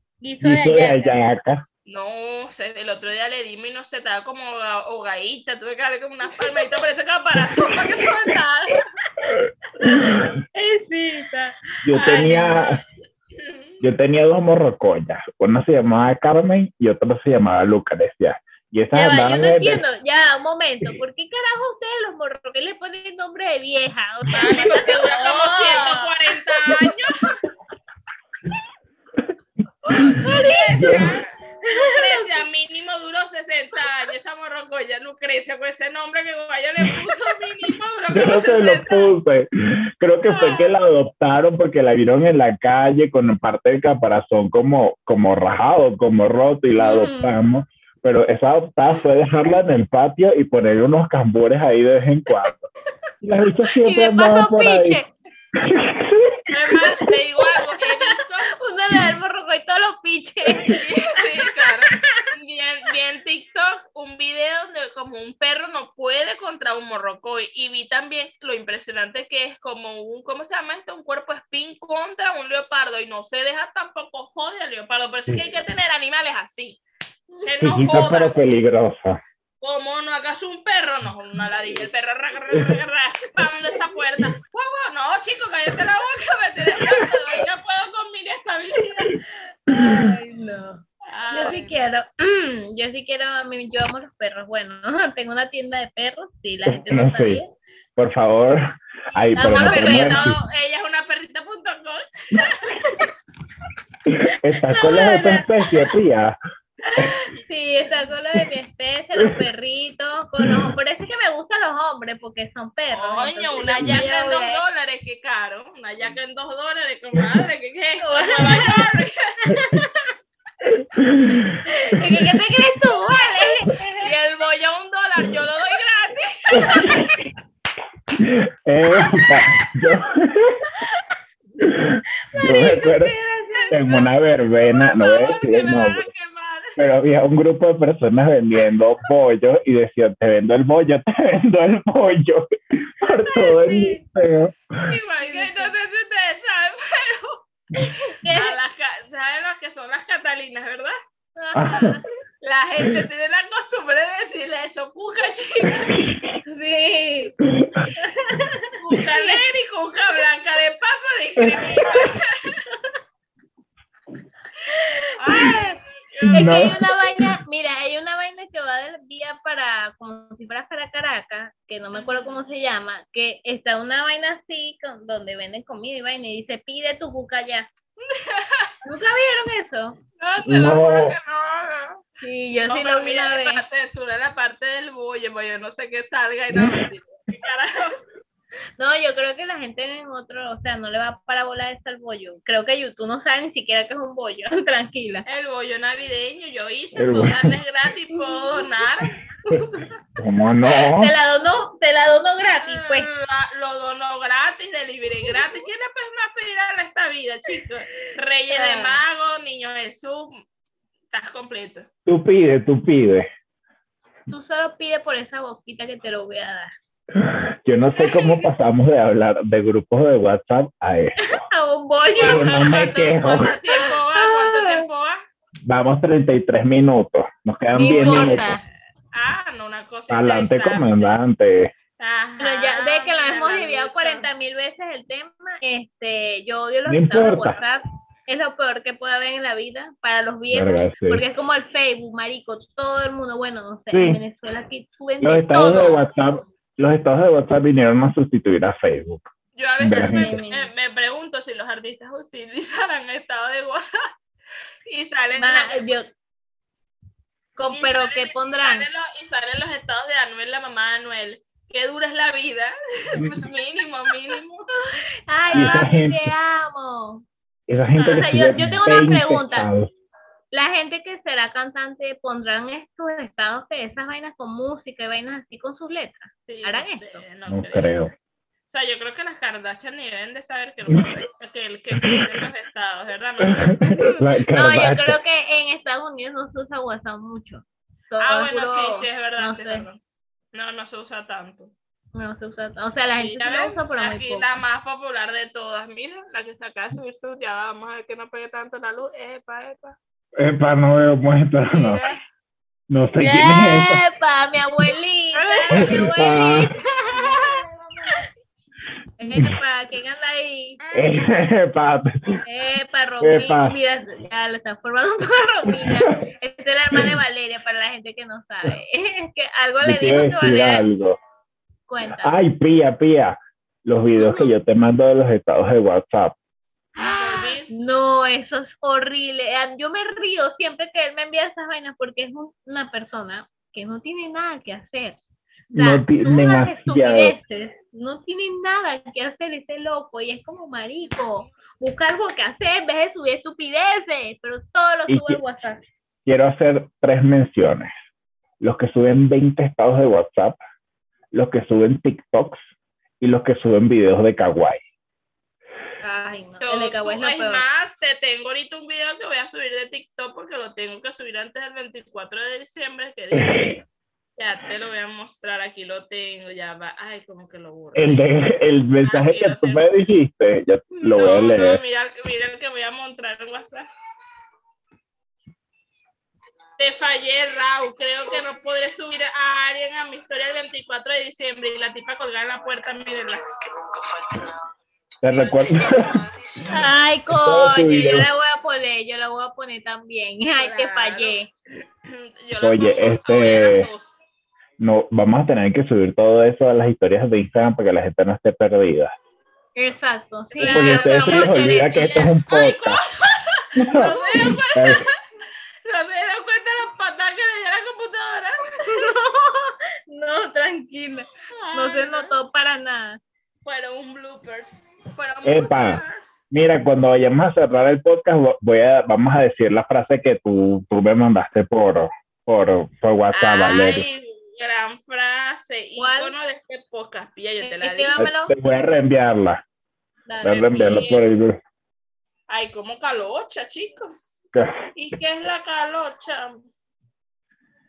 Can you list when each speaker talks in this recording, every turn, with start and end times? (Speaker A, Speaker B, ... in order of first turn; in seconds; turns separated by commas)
Speaker A: 0.2-1.2, Speaker B: 0.4-1.6, Speaker C: 1.9-8.8, Speaker B: 9.2-10.3, Speaker A: 9.8-12.4, Speaker B: 11.8-12.8, Speaker C: 12.0-12.8, Speaker C: 13.3-13.8, Speaker B: 13.8-19.8, Speaker A: 18.9-26.7, Speaker C: 24.3-27.3, Speaker A: 29.9-30.9, Speaker C: 29.9-39.1, Speaker B: 30.7-31.1, Speaker A: 31.6-32.3, Speaker B: 38.1-52.7, Speaker C: 40.3-40.7, Speaker A: 46.8-47.3, Speaker B: 53.2-55.0, Speaker A: 53.8-55.1, Speaker B: 55.5-56.4, Speaker C: 56.5-58.5, Speaker A: 57.4-62.3, Speaker C: 60.6-76.8, Speaker C: 77.4-78.4, Speaker B: 77.6-79.2, Speaker C: 79.6-89.2, Speaker B: 82.5-82.8, Speaker A: 89.7-97.5, Speaker B: 89.7-90.1, Speaker C: 91.1-91.8, Speaker B: 96.7-97.4, Speaker B: 98.0-100.4, Speaker C: 99.1-102.7, Speaker A: 99.3-100.3, Speaker B: 104.1-106.4, Speaker A: 104.7-105.5, Speaker A: 106.8-114.6, Speaker B: 110.4-110.7, Speaker C: 112.9-119.4, Speaker A: 118.0-118.8, Speaker A: 119.5-120.1, Speaker B: 120.7-122.4, Speaker A: 121.7-124.1, Speaker C: 124.0-127.1, Speaker B: 126.5-127.1, Speaker B: 128.2-130.7, Speaker B: 131.6-133.2, Speaker A: 132.3-133.9, Speaker C: 133.5-134.1, Speaker B: 133.7-136.1, Speaker C: 134.7-136.8, Speaker B: 136.8-144.9, Speaker A: 143.1-144.0, Speaker C: 144.9-150.9, Speaker A: 145.2-145.7, Speaker A: 147.8-148.6, Speaker A: 151.4-152.0, Speaker B: 151.6-152.0, Speaker C: 152.4-155.9, Speaker B: 156.0-156.3, Speaker A: 156.5-157.4, Speaker B: 157.6-157.9, Speaker A: 157.9-159.4, Speaker C: 158.7-162.6, Speaker B: 161.4-161.9, Speaker A: 164.7-165.8, Speaker C: 165.2-166.9, Speaker B: 166.2-167.3, Speaker A: 166.3-177.7, Speaker C: 171.9-172.3, Speaker C: 178.0-178.7, Speaker A: 178.8-180.0, Speaker C: 180.2-182.1, Speaker B: 180.4-181.2, Speaker A: 182.2-183.6, Speaker C: 182.7-188.0, Speaker A: 188.8-195.2, Speaker C: 195.3-199.1, Speaker B: 197.0-197.5, Speaker A: 198.1-198.7, Speaker A: 199.5-199.9, Speaker B: 200.2-201.1, Speaker A: 200.6-203.1, Speaker C: 202.6-210.4, Speaker A: 208.5-209.0, Speaker C: 211.1-211.9, Speaker B: 212.1-213.3, Speaker A: 214.3-216.7, Speaker B: 217.2-221.4, Speaker A: 218.0-218.5, Speaker A: 221.2-222.7, Speaker C: 222.0-225.2, Speaker B: 222.2-223.6, Speaker A: 223.7-224.8, Speaker B: 225.7-228.5, Speaker A: 227.8-228.6, Speaker C: 227.8-228.5, Speaker C: 229.1-231.2, Speaker B: 230.1-231.7, Speaker C: 232.0-234.3, Speaker A: 232.4-246.4, Speaker B: 236.9-237.6, Speaker B: 240.5-241.2, Speaker B: 243.9-244.2, Speaker B: 245.2-250.4, Speaker C: 245.6-245.9, Speaker C: 249.6-253.9, Speaker A: 249.9-250.7, Speaker C: 254.9-255.9, Speaker A: 255.4-256.1, Speaker A: 257.6-258.9, Speaker C: 257.7-264.7, Speaker A: 264.9-267.2, Speaker B: 265.5-266.3, Speaker B: 267.7-269.9, Speaker C: 268.0-268.3, Speaker A: 268.0-269.7, Speaker A: 270.5-277.2, Speaker C: 276.5-277.9, Speaker B: 277.5-278.1, Speaker C: 278.7-284.2, Speaker B: 282.0-282.2, Speaker B: 283.4-285.2, Speaker A: 284.5-289.9, Speaker C: 288.2-290.0, Speaker C: 290.5-291.7, Speaker A: 292.1-294.5, Speaker C: 293.2-300.0, Speaker B: 300.4-302.0, Speaker C: 301.7-302.2, Speaker B: 302.9-304.0, Speaker A: 303.2-307.6, Speaker C: 305.3-306.1, Speaker B: 305.8-306.8, Speaker C: 307.1-308.2, Speaker A: 309.2-310.8, Speaker C: 310.8-311.1, Speaker B: 310.9-312.4, Speaker A: 312.5-320.9, Speaker B: 313.2-313.8, Speaker B: 315.7-316.2, Speaker B: 319.8-321.2, Speaker A: 321.9-322.4, Speaker B: 322.2-326.4, Speaker A: 324.2-324.5, Speaker A: 327.0-335.2, Speaker C: 327.0-327.7, Speaker B: 335.7-337.4, Speaker A: 335.8-345.8, Speaker B: 345.1-345.4, Speaker B: 346.3-347.9, Speaker B: 348.6-350.6, Speaker B: 351.3-352.6, Speaker B: 353.2-354.8, Speaker A: 356.0-357.6, Speaker C: 356.6-363.8, Speaker B: 363.3-363.7, Speaker C: 364.4-368.3, Speaker B: 367.9-371.8, Speaker C: 369.0-369.9, Speaker C: 371.0-373.9, Speaker C: 376.8-384.5, Speaker B: 385.2-386.2, Speaker C: 385.3-386.3, Speaker A: 386.7-391.5, Speaker B: 387.3-388.3, Speaker C: 390.6-391.4, Speaker C: 392.0-394.2, Speaker B: 392.6-393.9, Speaker B: 394.8-399.1, Speaker A: 399.8-402.0, Speaker C: 400.6-405.1, Speaker B: 400.6-403.0, Speaker B: 403.8-405.0, Speaker C: 405.9-409.1, Speaker A: 408.8-413.2, Speaker C: 411.5-412.4, Speaker C: 413.6-416.2, Speaker B: 415.4-424.1, Speaker C: 423.3-428.2, Speaker A: 426.0-426.4, Speaker A: 427.6-428.6, Speaker B: 428.2-429.6, Speaker A: 430.3-430.8, Speaker B: 430.4-431.6, Speaker C: 430.5-431.2, Speaker C: 432.5-434.1, Speaker B: 434.5-434.8, Speaker C: 435.0-436.7